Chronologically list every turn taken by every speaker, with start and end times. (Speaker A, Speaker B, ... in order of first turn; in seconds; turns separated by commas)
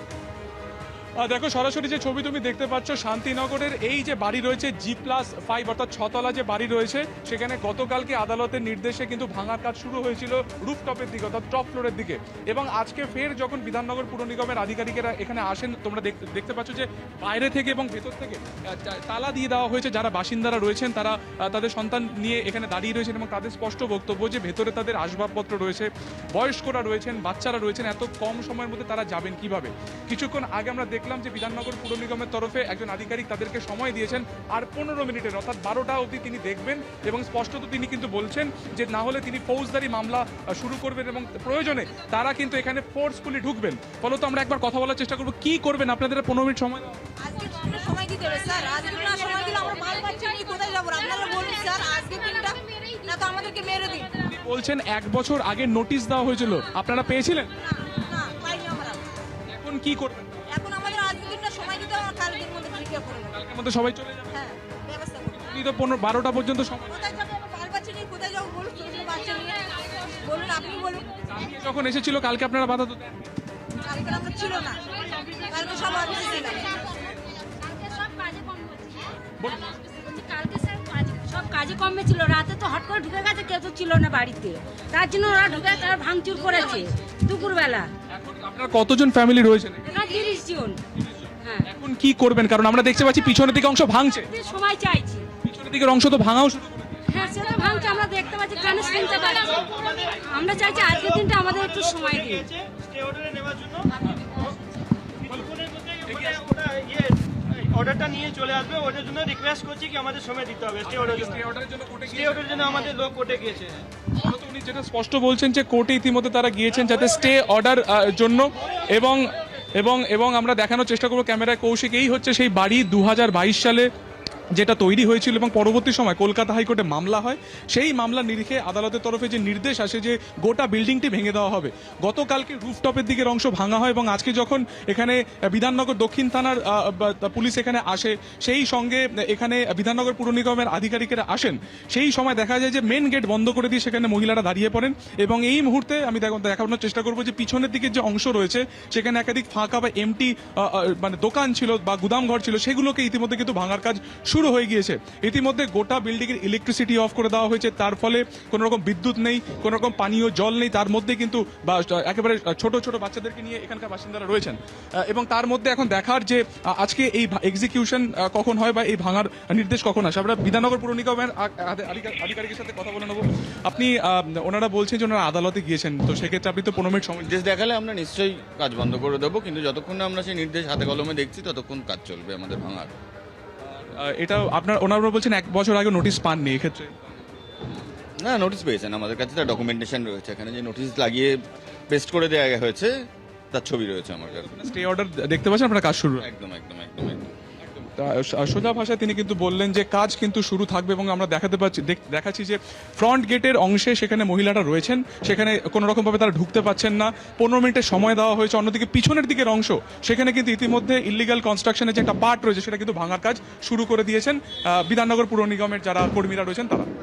Speaker A: 1.2-47.0, Speaker B: 47.2-54.1, Speaker C: 49.1-49.9, Speaker C: 52.1-53.1, Speaker A: 54.2-57.6, Speaker B: 57.6-59.1, Speaker A: 59.5-60.4, Speaker B: 60.5-63.4, Speaker A: 63.3-64.4, Speaker B: 64.3-65.4, Speaker A: 65.4-67.0, Speaker B: 66.9-71.5, Speaker A: 71.3-73.3, Speaker B: 73.8-76.9, Speaker D: 74.5-76.8, Speaker C: 77.0-87.9, Speaker A: 79.4-79.8, Speaker A: 88.1-89.9, Speaker C: 89.9-90.8, Speaker C: 91.4-91.7, Speaker A: 91.7-94.3, Speaker C: 94.3-95.3, Speaker A: 95.4-97.1, Speaker C: 97.1-102.5, Speaker D: 99.0-103.9, Speaker D: 105.3-111.4, Speaker A: 106.1-106.5, Speaker A: 110.8-112.8, Speaker D: 112.1-113.8, Speaker A: 114.2-119.2, Speaker A: 119.8-123.9, Speaker A: 124.5-177.3, Speaker E: 177.2-182.9, Speaker A: 183.9-186.9, Speaker E: 188.2-191.3, Speaker E: 191.9-193.0, Speaker E: 193.5-194.6, Speaker A: 194.6-196.3, Speaker E: 196.2-197.3, Speaker A: 198.0-216.9